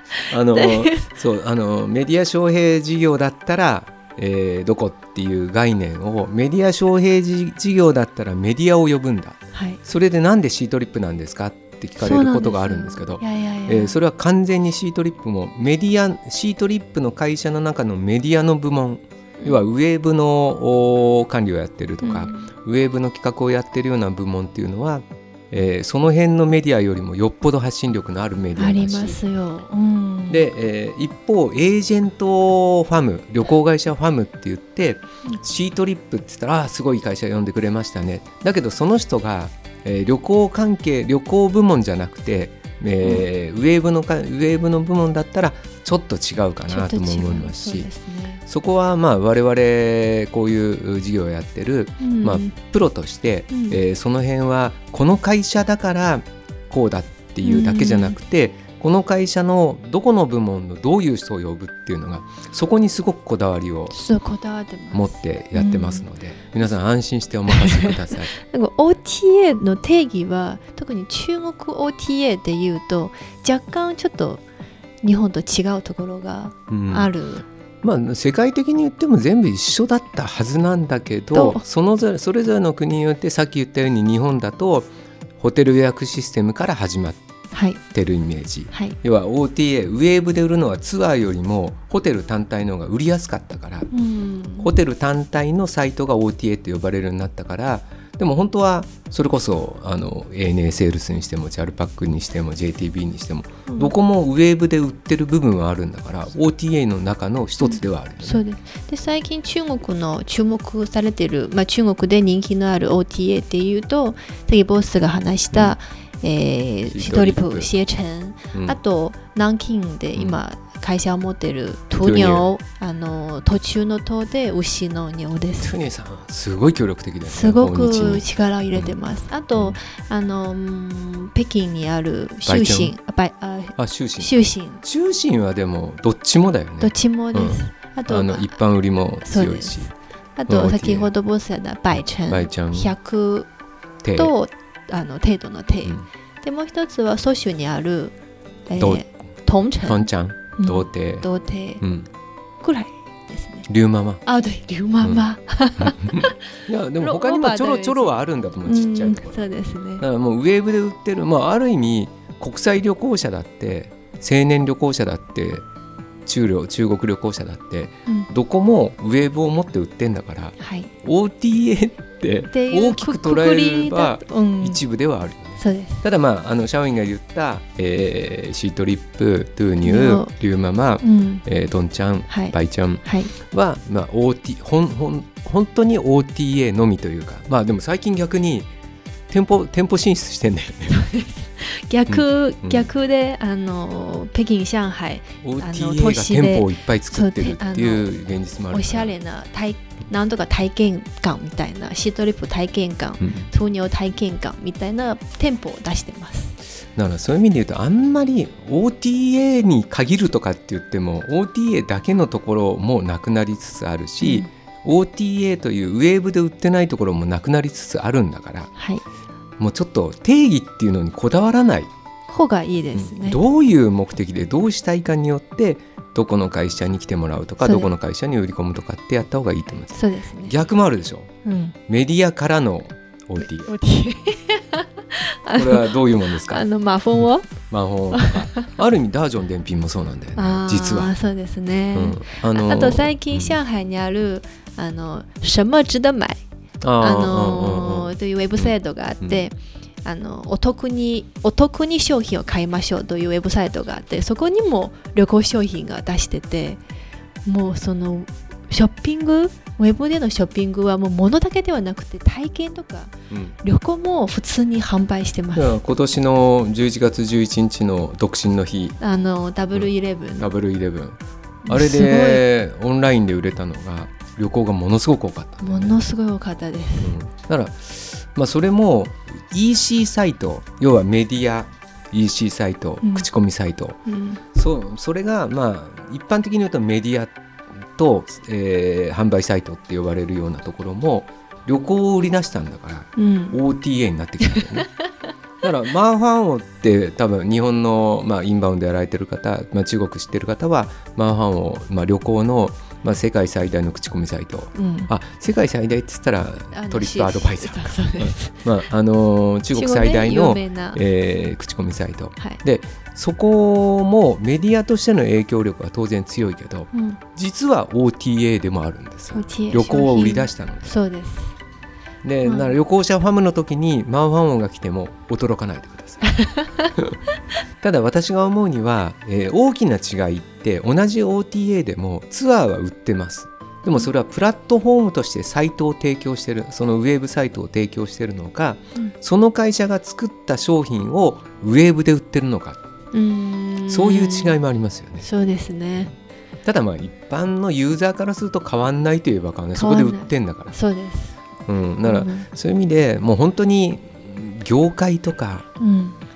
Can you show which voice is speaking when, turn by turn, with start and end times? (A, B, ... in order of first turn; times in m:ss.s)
0:00.2-0:01.1 A
0:00.3-0:29.2 B
0:09.5-0:09.8 A
0:12.0-0:14.0 A
0:22.0-0:22.5 A
0:28.6-0:30.4 A
0:30.3-0:47.9 B
0:46.7-0:48.4 A
0:48.5-1:03.9 B
0:52.0-0:52.6 A
0:53.5-0:53.8 A
0:57.4-0:58.2 A
1:03.9-1:06.1 A
1:04.9-1:08.4 B
1:07.5-1:14.4 A
1:15.0-1:17.5 A
1:16.7-1:17.1 B
1:17.8-1:27.2 B
1:21.3-1:21.6 A
1:27.5-1:27.8 A
1:27.9-1:33.9 B
1:28.7-1:29.0 A
1:33.9-1:34.7 A
1:34.6-1:48.4 B
1:43.7-1:43.9 A
1:47.6-2:05.8 A
1:56.9-1:57.7 B
1:58.5-1:58.8 B
2:00.1-2:00.4 B
2:02.0-2:02.5 B
2:05.6-2:09.0 B
2:07.2-2:14.8 A
2:12.5-2:12.9 B
2:13.8-2:19.9 B
2:16.8-2:18.6 A
2:19.2-2:23.5 A
2:20.5-2:21.1 B
2:22.3-2:23.0 B
2:24.0-2:24.3 B
2:24.1-2:28.1 A
2:28.6-2:31.8 A
2:28.8-2:29.2 B
2:29.8-2:31.3 B
2:31.8-2:32.1 B
2:32.6-2:33.6 A
2:33.7-2:34.2 B
2:34.2-2:36.4 A
2:35.0-2:35.2 B
2:35.8-2:45.6 B
2:37.0-2:40.0 A
2:46.2-3:08.7 B
2:50.6-2:50.9 A
2:52.4-2:54.8 A
2:55.6-2:56.0 A
2:59.8-3:00.3 A
3:01.0-3:01.4 A
3:02.3-3:03.3 A
3:09.3-3:11.0 B
3:10.9-3:18.1 A
3:12.1-3:12.9 B
3:15.4-3:19.1 B
3:18.7-3:26.6 A
3:23.2-3:23.5 B
3:27.0-3:38.7 B
3:34.2-3:34.5 A
3:38.8-3:39.0 A
3:39.6-3:41.9 B
3:42.3-3:43.4 A
3:43.0-3:51.3 B
3:47.6-3:47.9 A
3:49.9-3:50.6 A
3:51.4-3:51.8 A
3:51.9-3:53.7 B
3:53.4-3:57.5 A
3:55.6-3:56.6 B
3:57.6-4:01.1 B
3:58.1-3:58.6 A
4:00.4-4:06.4 A
4:02.0-4:03.6 B
4:06.8-4:09.4 B
4:07.0-4:16.8 A
4:17.4-4:25.8 A
4:23.3-4:23.6 B
4:25.5-4:29.0 B
4:29.0-4:30.5 A
4:29.8-4:36.0 B
4:31.6-4:32.4 A
4:35.6-4:37.2 A
4:37.0-4:44.0 B
4:43.0-4:43.3 A
4:44.0-4:44.4 A
4:44.5-4:47.4 B
4:47.9-4:54.9 B
4:53.2-4:53.6 A
4:55.6-5:20.9 B
5:04.8-5:05.1 A
5:06.7-5:08.7 A
5:09.7-5:11.0 A
5:16.9-5:17.2 A
5:19.3-5:21.6 A
5:22.2-5:26.3 B
5:22.4-5:22.7 A
5:26.3-5:26.9 A
5:27.8-5:42.8 B
5:43.1-5:44.6 A
5:43.9-5:45.2 B
5:45.2-5:46.1 A
5:46.6-5:50.8 B
5:49.8-5:51.4 A
5:51.6-5:55.6 B
5:52.0-5:52.5 A
5:55.8-5:56.2 A